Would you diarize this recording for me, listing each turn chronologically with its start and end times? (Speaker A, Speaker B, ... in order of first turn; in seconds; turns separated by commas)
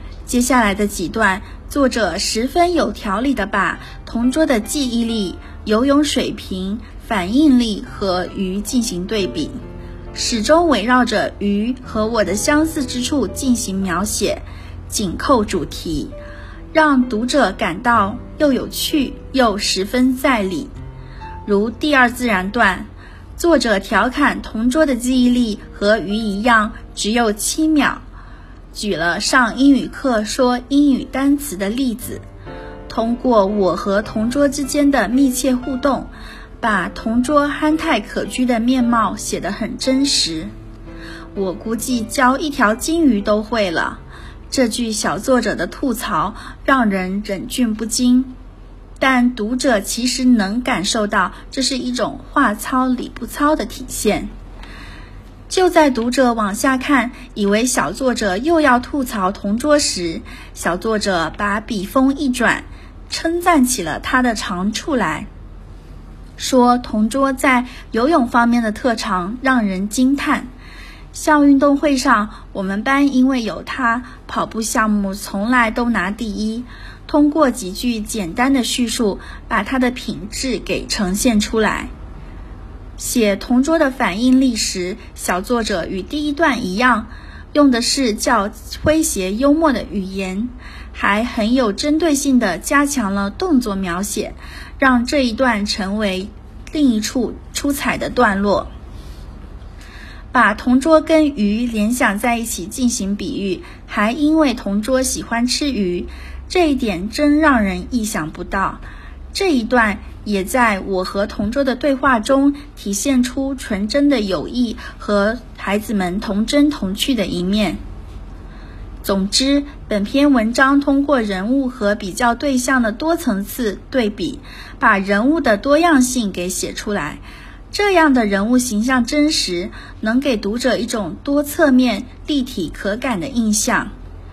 Speaker A: 0.3-9.6, Speaker A: 10.1-16.1, Speaker A: 16.7-20.7, Speaker A: 21.5-28.0, Speaker A: 28.7-32.2, Speaker A: 32.9-36.1, Speaker A: 36.6-40.5, Speaker A: 41.4-48.3, Speaker A: 49.0-54.3, Speaker A: 55.5-65.3, Speaker A: 66.4-70.5, Speaker A: 71.1-81.9, Speaker A: 83.0-98.7, Speaker A: 100.3-117.8, Speaker A: 119.0-133.9